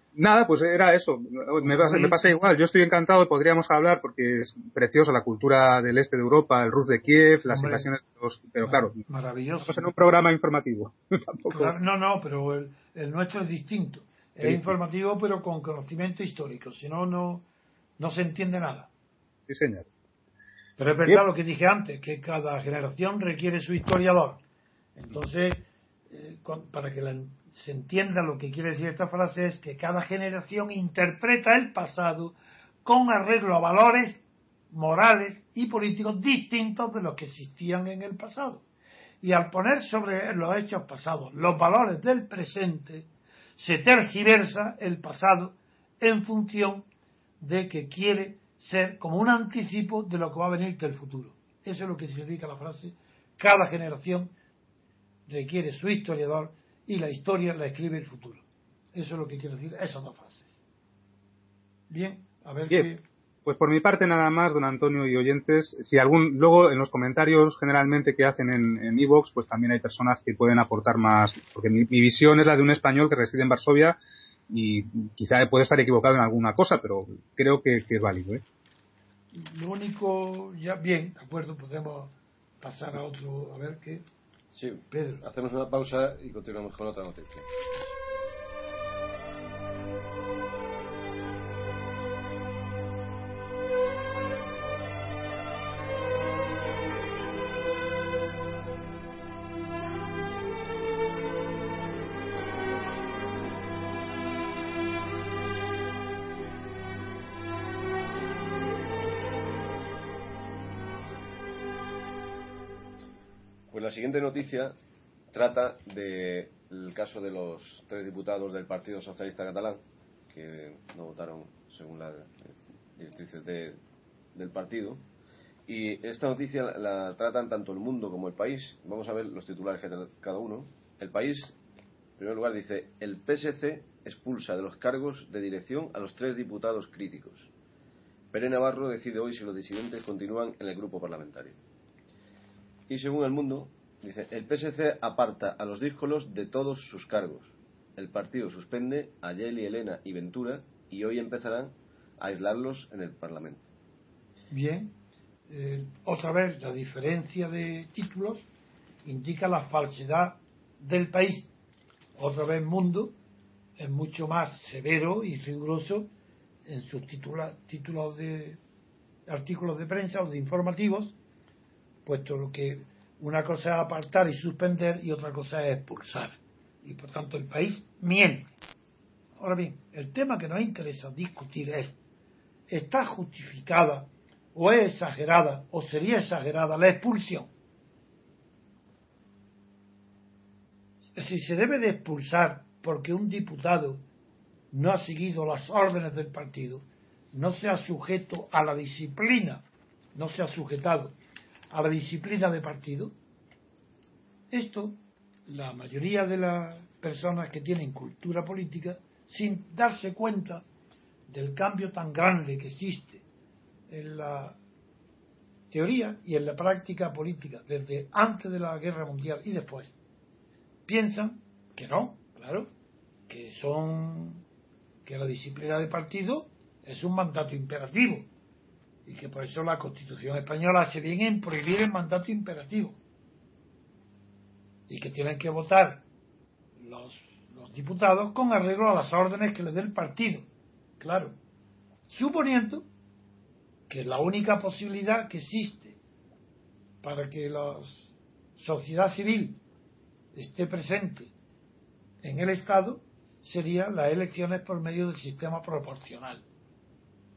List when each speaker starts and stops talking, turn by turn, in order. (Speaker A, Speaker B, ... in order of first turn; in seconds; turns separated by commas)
Speaker A: 0.1-9.0, Speaker B: 1.6-2.4, Speaker B: 7.5-7.9, Speaker B: 8.6-9.9, Speaker A: 9.7-11.7, Speaker B: 11.5-17.5, Speaker A: 14.4-14.7, Speaker B: 18.0-18.9, Speaker A: 19.5-19.9, Speaker B: 20.8-24.4, Speaker B: 25.0-38.6, Speaker B: 39.2-46.9, Speaker B: 47.4-54.3, Speaker B: 55.3-58.4, Speaker B: 58.9-60.5, Speaker B: 61.9-63.0, Speaker A: 63.5-78.4, Speaker B: 79.3-84.0, Speaker C: 84.5-87.5, Speaker B: 84.9-85.2, Speaker C: 113.7-114.8, Speaker C: 115.3-123.8, Speaker C: 124.3-125.0, Speaker C: 125.7-131.6, Speaker C: 132.2-137.5, Speaker C: 138.3-141.6, Speaker C: 142.9-153.7, Speaker B: 154.5-154.9, Speaker B: 155.5-158.5, Speaker B: 159.1-161.5, Speaker B: 162.2-163.2, Speaker B: 163.8-166.1, Speaker B: 166.7-168.6, Speaker B: 169.3-171.2, Speaker B: 172.1-178.5, Speaker B: 179.4-182.0, Speaker B: 182.7-187.5, Speaker B: 191.2-194.0, Speaker B: 194.7-199.6, Speaker B: 200.2-201.2, Speaker B: 201.7-203.1, Speaker B: 204.5-210.6, Speaker B: 211.3-213.2, Speaker B: 213.9-214.6, Speaker B: 215.7-220.0, Speaker B: 220.9-222.7, Speaker B: 223.3-224.4, Speaker B: 225.1-228.3, Speaker B: 229.1-233.0, Speaker B: 234.9-236.1, Speaker B: 236.8-240.5, Speaker B: 241.0-241.4, Speaker B: 242.1-242.9, Speaker B: 243.9-246.0, Speaker B: 247.0-249.6, Speaker B: 250.3-251.3, Speaker B: 252.2-256.4